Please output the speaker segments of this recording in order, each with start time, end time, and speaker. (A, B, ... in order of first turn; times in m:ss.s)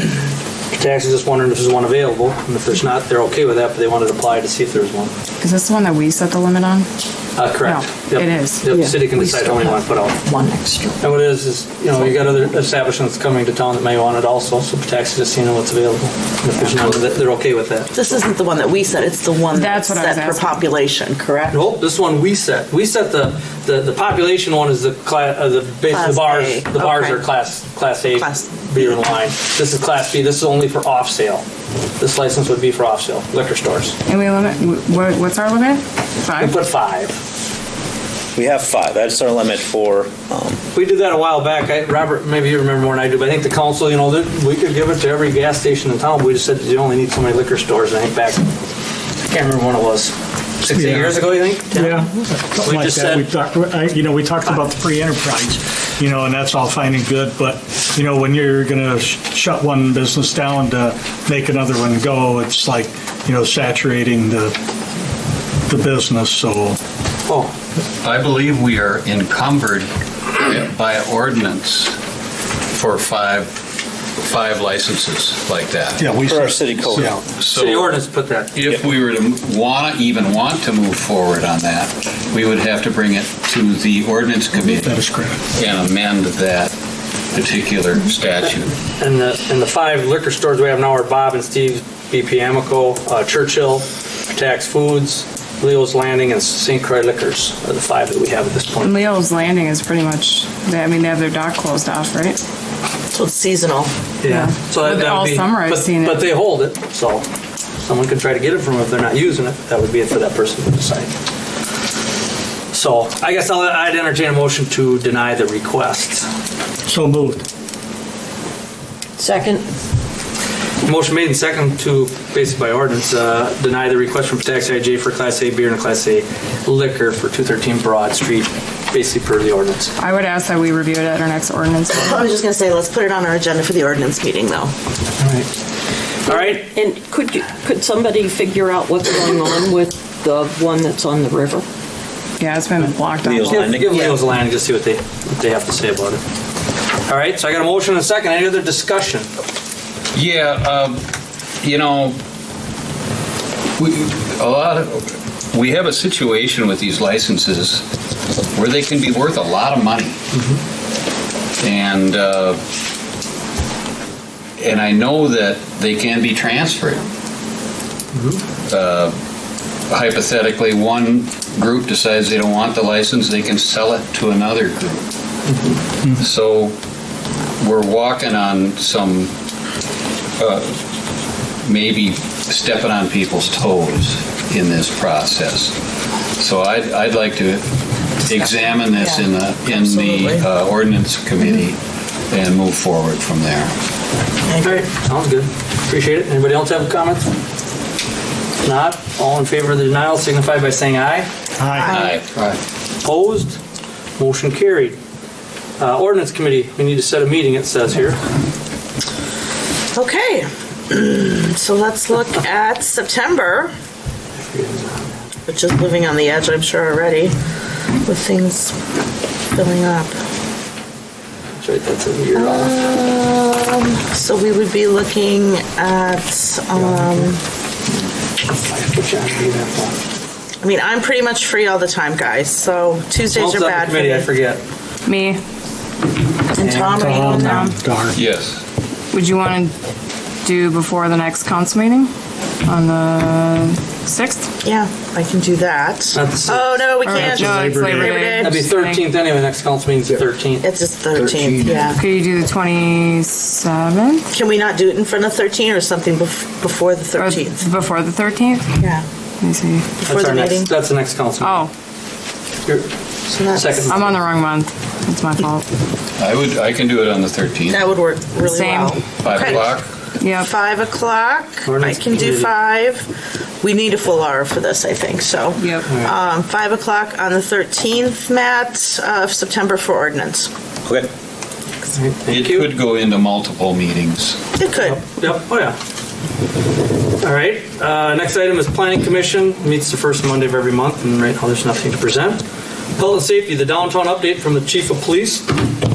0:00.7-0:05.1 A
0:05.4-0:06.9 B
0:07.4-0:10.2 A
0:07.6-0:08.7 B
0:10.2-0:11.0 C
0:11.0-0:17.9 A
0:17.9-0:21.6 C
0:19.5-0:20.5 B
0:21.5-0:31.4 A
0:25.9-0:27.2 C
0:28.2-0:28.8 C
0:32.0-0:34.0 A
0:34.1-0:36.6 B
0:36.4-0:37.2 A
0:38.3-0:40.6 D
0:40.7-0:48.5 A
0:49.3-0:52.0 A
0:50.7-1:04.6 E
0:52.6-0:53.3 A
1:05.6-1:06.8 E
1:07.3-1:07.5 A
1:08.0-1:12.0 F
1:12.7-1:13.6 F
1:14.2-1:16.1 F
1:16.0-1:17.2 E
1:16.1-1:17.2 D
1:17.3-1:17.9 F
1:17.5-1:18.5 A
1:18.5-1:25.0 F
1:24.6-1:25.4 E
1:25.5-1:26.7 F
1:27.3-1:28.7 F
1:29.0-1:39.0 A
1:38.8-1:42.4 B
1:43.1-1:43.9 C
1:44.2-1:47.2 A
1:44.2-1:46.2 B
1:47.8-1:51.1 A
1:52.7-1:56.3 A
1:56.9-1:57.4 E
1:59.2-1:59.6 G
2:00.8-2:09.9 A
2:10.0-2:12.2 B
2:11.9-2:14.7 C
2:15.2-2:15.5 A
2:16.2-2:16.7 A
2:16.7-2:21.6 G
2:22.4-2:23.7 B
2:23.2-2:24.2 D
2:23.5-2:26.2 A
2:27.0-2:29.3 A
2:30.1-2:31.0 F
2:31.6-2:32.2 F
2:33.8-2:37.8 F
2:38.5-2:40.2 F
2:40.3-2:40.6 A
2:41.6-2:42.6 F
2:44.6-2:47.0 F
2:48.1-2:48.4 A
2:48.7-2:49.1 F
2:49.9-2:55.0 F
2:55.5-2:55.8 A
2:56.2-2:56.8 F
2:57.6-2:59.3 F
3:00.4-3:00.8 F
3:01.6-3:05.7 F
3:06.4-3:07.7 F
3:08.2-3:13.7 F
3:08.9-3:10.5 C
3:14.5-3:14.8 C
3:14.6-3:17.3 A
3:18.6-3:21.3 A
3:21.6-3:22.0 E
3:21.8-3:22.2 C
3:21.9-3:22.6 F
3:23.0-3:23.6 A
3:24.2-3:25.0 A
3:25.8-3:28.2 A
3:29.9-3:33.7 C
3:34.4-3:35.2 A
3:35.5-3:37.3 C
3:38.0-3:38.8 C
3:39.5-3:40.1 C
3:41.6-3:42.7 A
3:42.3-3:47.4 C
3:46.7-3:47.3 A
3:48.5-3:50.0 A
3:50.6-3:54.3 C
3:53.3-3:54.6 A
3:55.0-3:55.4 B
3:56.5-3:57.7 C
3:56.6-3:57.2 A
3:56.7-3:58.2 E
3:57.4-3:57.7 B
3:58.1-3:58.6 F
3:59.1-3:59.7 B
4:00.4-4:02.1 B
4:02.6-4:04.5 B
4:04.6-4:08.6 C
4:06.1-4:07.2 A
4:07.0-4:09.0 B
4:07.1-4:08.1 E
4:08.3-4:10.7 A
4:10.6-4:12.0 C
4:11.2-4:11.9 D
4:11.9-4:14.2 B
4:14.3-4:17.6 C
4:17.2-4:18.8 B
4:18.8-4:19.0 C
4:19.4-4:19.9 B
4:20.0-4:20.7 C
4:20.0-4:21.6 A
4:21.4-4:21.7 B
4:23.3-4:24.0 C
4:23.5-4:24.2 A
4:23.9-4:25.6 B
4:26.2-4:27.9 F
4:27.7-4:29.8 C
4:28.4-4:29.0 B
4:29.2-4:29.9 F
4:30.2-4:30.5 B
4:30.4-4:33.0 C
4:31.6-4:32.5 A
4:33.6-4:40.5 C
4:35.6-4:35.8 B
4:35.9-4:36.1 A
4:41.9-4:42.7 A
4:42.3-4:44.4 F
4:44.6-4:45.0 C
4:44.8-4:45.8 A
4:47.2-4:52.4 A
4:53.0-4:55.5 A